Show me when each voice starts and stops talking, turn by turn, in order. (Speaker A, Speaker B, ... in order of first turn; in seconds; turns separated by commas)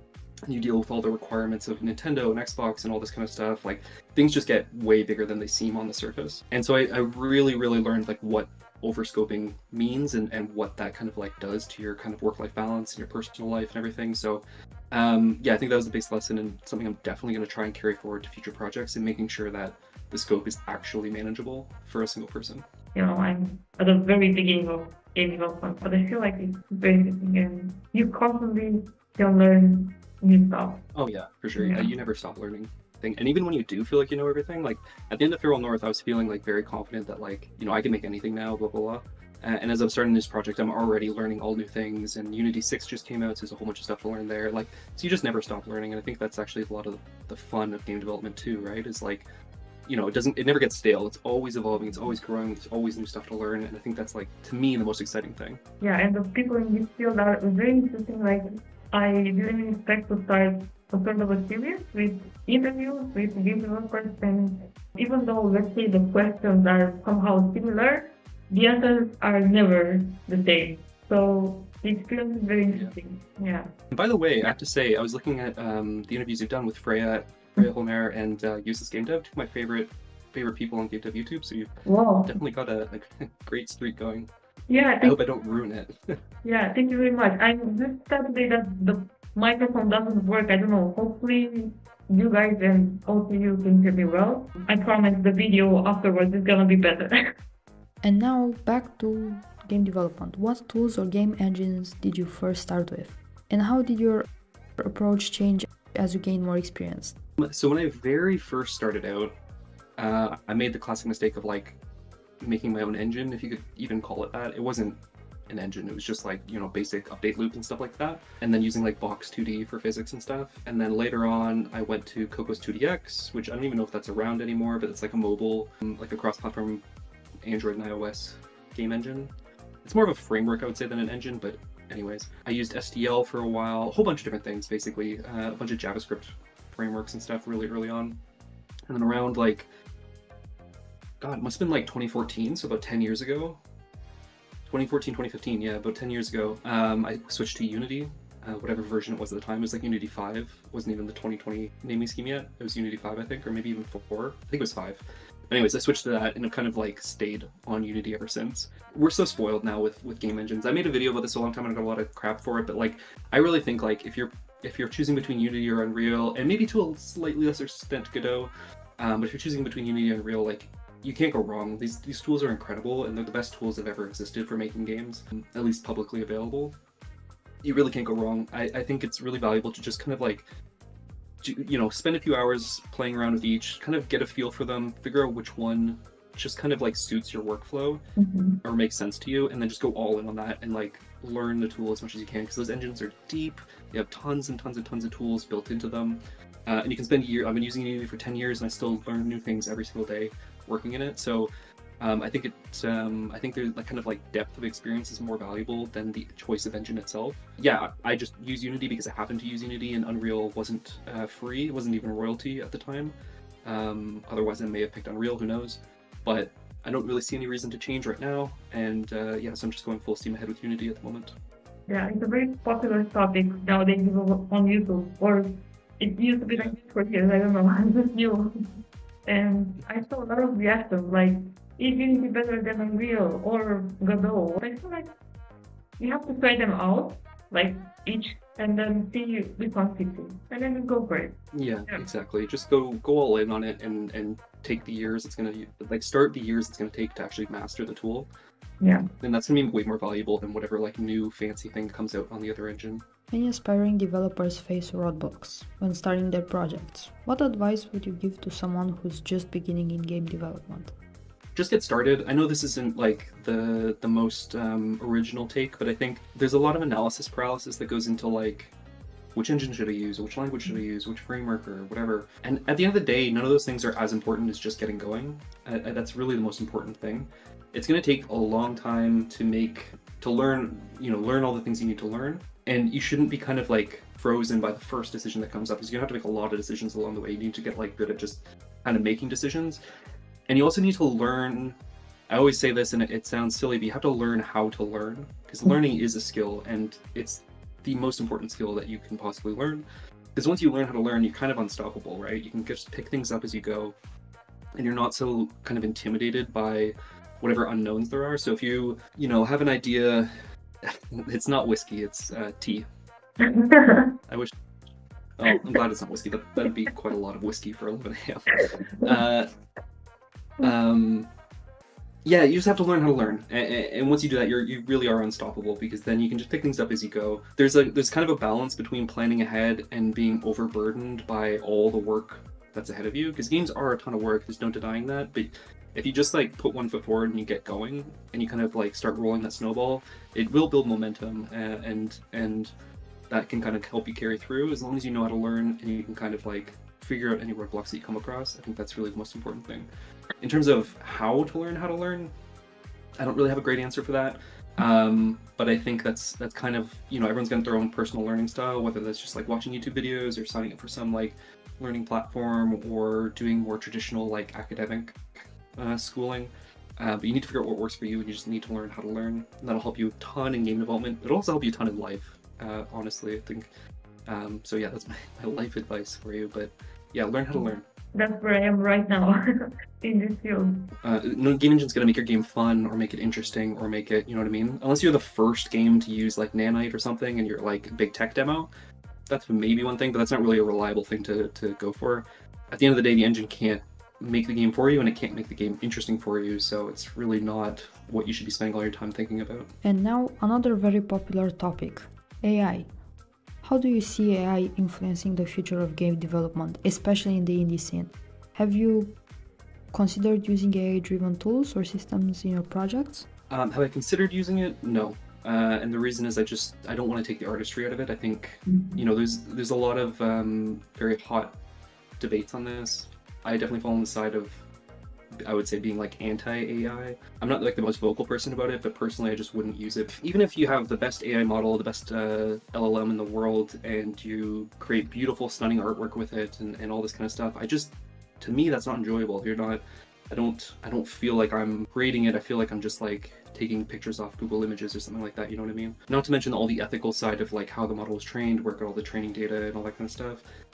Speaker A: 0.5-22.6, Speaker B: 22.9-30.9, Speaker A: 30.9-49.3, Speaker B: 31.6-31.9, Speaker A: 49.9-55.6, Speaker B: 51.8-52.1, Speaker B: 55.8-73.7, Speaker A: 72.7-73.0, Speaker A: 73.9-81.7, Speaker B: 81.9-82.4, Speaker A: 82.2-84.3, Speaker B: 84.7-85.2, Speaker A: 85.0-86.0, Speaker B: 86.4-97.2, Speaker C: 98.0-104.3, Speaker C: 104.8-107.2, Speaker A: 107.4-109.3, Speaker A: 110.0-111.8, Speaker A: 112.4-126.8, Speaker A: 127.4-129.3, Speaker A: 129.8-138.2, Speaker A: 138.9-139.7, Speaker A: 141.2-143.6, Speaker A: 144.6-176.8, Speaker A: 177.6-180.5, Speaker A: 181.4-188.0, Speaker B: 188.2-188.6, Speaker A: 188.6-221.3, Speaker B: 221.9-228.5, Speaker A: 226.5-226.8, Speaker B: 229.2-235.1, Speaker B: 236.0-241.4, Speaker A: 241.5-248.3, Speaker B: 248.8-249.1, Speaker A: 249.2-253.0, Speaker C: 253.3-260.9, Speaker A: 261.6-268.7, Speaker A: 269.4-289.8, Speaker A: 290.5-291.8, Speaker A: 292.3-303.9, Speaker A: 304.8-310.3, Speaker A: 310.9-312.9, Speaker B: 313.4-314.1, Speaker A: 314.3-314.6, Speaker A: 315.4-319.5, Speaker B: 318.6-319.2, Speaker A: 320.6-321.3, Speaker A: 322.2-342.7, Speaker A: 343.3-349.9, Speaker A: 350.4-352.3, Speaker A: 353.2-373.7, Speaker A: 374.3-377.8, Speaker B: 377.5-380.9, Speaker A: 381.0-388.7, Speaker A: 389.3-399.7, Speaker C: 399.8-402.9, Speaker C: 403.6-409.1, Speaker C: 409.9-413.3, Speaker A: 413.5-421.6, Speaker B: 418.7-419.0, Speaker A: 422.2-424.6, Speaker A: 425.4-450.4